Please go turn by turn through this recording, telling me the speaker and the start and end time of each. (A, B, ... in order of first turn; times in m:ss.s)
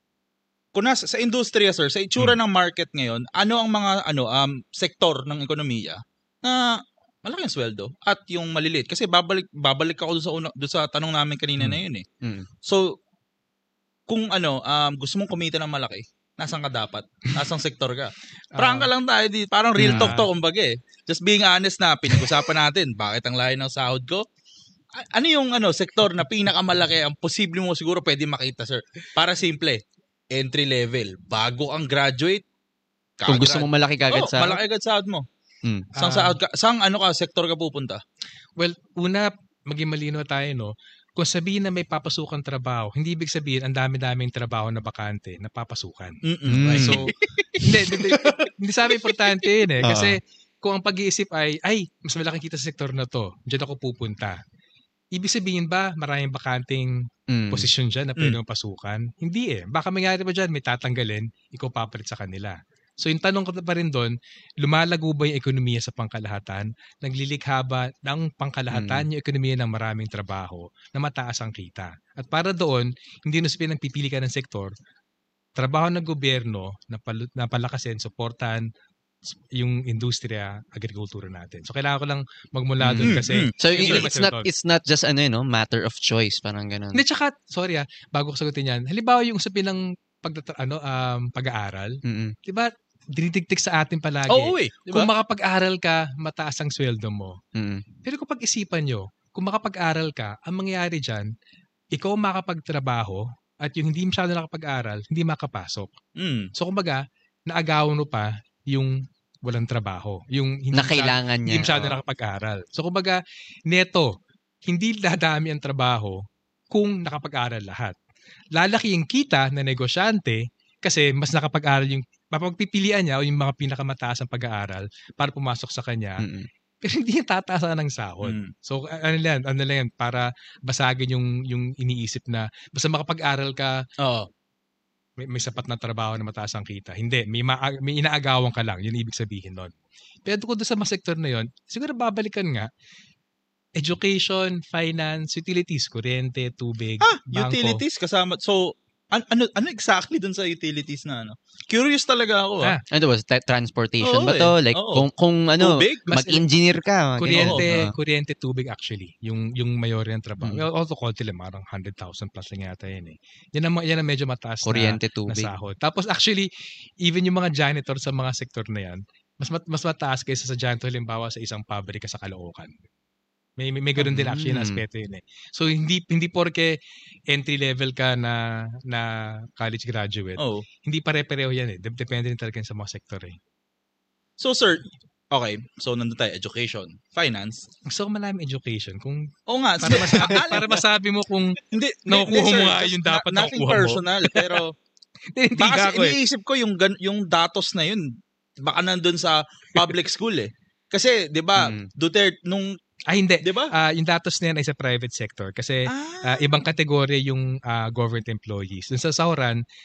0:00.7-0:12.0 A
0:11.6-0:12.5 B
0:12.6-0:12.9 A
0:14.1-0:24.2 A
0:18.5-0:18.9 C
0:19.8-0:20.1 B
0:19.8-0:20.3 C
0:25.0-0:29.8 A
0:30.3-0:32.4 A
0:33.2-0:35.2 A
0:33.3-0:34.6 B
0:35.9-0:36.4 C
0:36.0-0:38.0 A
0:38.6-0:54.4 C
0:46.2-0:48.2 A
0:46.5-0:47.1 B
0:49.8-0:50.2 B
0:55.1-1:14.7 C
0:57.3-0:57.7 B
1:08.7-1:09.1 B
1:15.6-1:18.6 C
1:19.5-1:24.5 C
1:22.8-1:27.0 B
1:23.0-1:24.1 A
1:26.9-1:37.4 C
1:32.0-1:32.4 B
1:34.3-1:35.1 A
1:37.6-1:37.8 B
1:38.0-1:41.3 C
1:41.9-1:45.9 C
1:46.2-1:46.5 A
1:46.5-1:54.1 C
1:50.7-1:52.0 B
1:54.6-1:58.0 C
1:58.5-2:06.2 C
2:06.2-2:06.5 B
2:06.8-2:13.8 C
2:08.2-2:08.5 A
2:14.0-2:14.3 A
2:15.2-2:22.7 C
2:23.8-2:27.8 C
2:27.0-2:32.7 A
2:32.9-2:37.9 B
2:34.0-2:35.1 A
2:35.6-2:36.0 A
2:36.1-2:36.4 C
2:37.2-2:46.5 C
2:37.4-2:37.6 A
2:44.6-2:45.5 B
2:47.0-2:52.7 C
2:53.6-3:03.4 C
2:54.0-2:54.8 B
3:00.4-3:00.6 A
3:04.4-3:07.6 A
3:07.8-3:09.3 C
3:09.5-3:10.6 A
3:09.8-3:14.6 C
3:11.7-3:14.7 A
3:15.3-3:16.2 C
3:15.6-3:18.1 A
3:18.6-3:22.7 A
3:21.6-3:21.9 B
3:23.1-3:29.6 C
3:23.4-3:23.7 A
3:25.9-3:26.6 A